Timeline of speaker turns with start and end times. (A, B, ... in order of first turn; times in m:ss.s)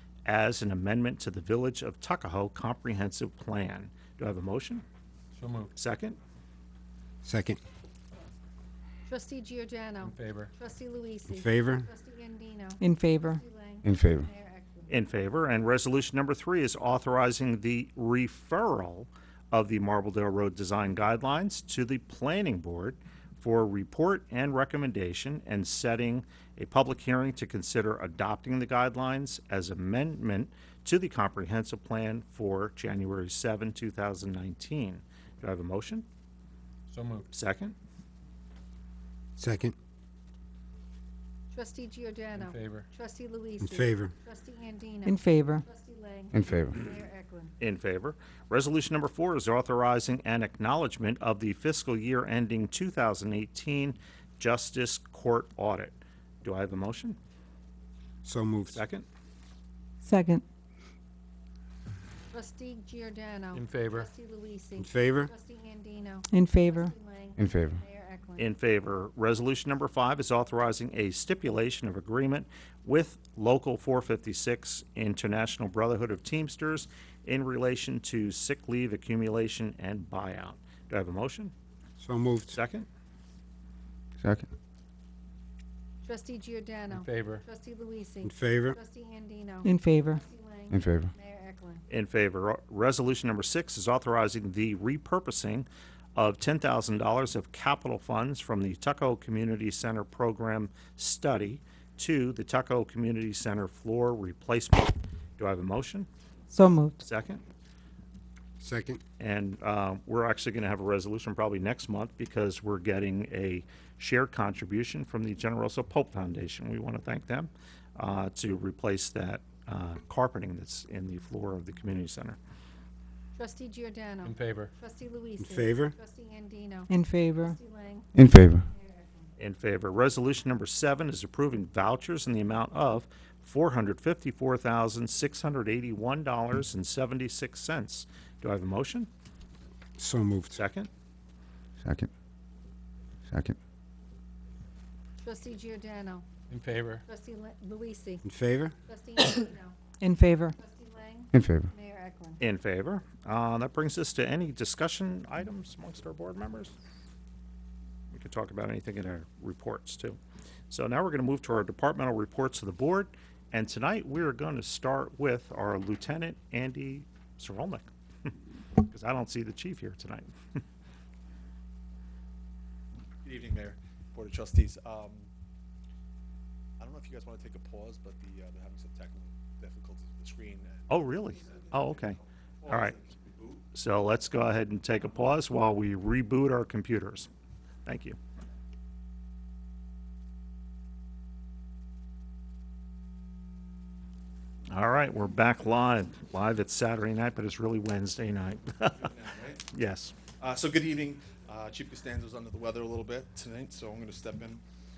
0:00.3-0:04.8 A
0:05.4-0:05.7 B
0:05.8-0:06.2 A
0:07.2-0:07.6 C
0:09.1-0:12.8 D
0:10.0-0:10.5 B
0:11.3-0:11.9 C
0:12.8-0:13.4 E
0:13.3-0:14.9 D
0:14.9-0:36.1 A
0:36.9-0:37.3 B
0:37.3-0:37.8 A
0:39.4-0:39.8 C
0:41.5-0:47.5 D
0:42.4-0:42.9 B
0:43.6-0:44.1 C
0:45.0-0:45.7 E
0:47.6-0:57.2 A
0:58.2-0:58.8 C
0:58.7-0:59.1 A
1:00.0-1:00.4 E
1:02.3-1:08.5 D
1:03.5-1:04.1 B
1:04.8-1:05.3 C
1:06.3-1:06.9 E
1:08.4-1:21.5 A
1:22.0-1:22.6 C
1:22.5-1:22.9 A
1:26.0-1:31.8 D
1:26.9-1:27.4 B
1:28.2-1:28.8 C
1:29.6-1:30.2 E
1:30.7-1:31.1 F
1:31.9-1:46.1 A
1:46.5-1:47.0 E
1:47.0-1:47.4 A
1:48.6-1:49.0 C
1:49.2-2:02.4 A
2:03.4-2:09.3 D
2:04.2-2:04.7 B
2:05.4-2:05.9 C
2:06.9-2:07.6 E
2:08.2-2:08.6 F
2:09.4-2:19.1 A
2:20.0-2:20.6 C
2:20.5-2:20.9 A
2:21.8-2:22.1 F
2:23.3-2:23.6 F
2:25.2-2:26.3 D
2:26.5-2:27.0 B
2:27.1-2:28.2 D
2:28.2-2:28.7 C
2:28.9-2:29.8 D
2:30.0-2:30.6 E
2:30.6-2:32.4 D
2:31.3-2:31.7 F
2:32.4-2:36.7 A
2:38.1-2:40.2 A
2:40.7-2:47.9 A
2:48.8-2:50.3 A
2:53.2-2:55.3 G
2:56.8-3:03.6 G
3:00.9-3:03.0 A
3:03.7-3:07.3 A
3:07.8-3:08.2 A
3:14.7-3:19.1 A
3:18.9-3:19.6 G
3:19.7-3:20.2 A
3:20.4-3:24.6 G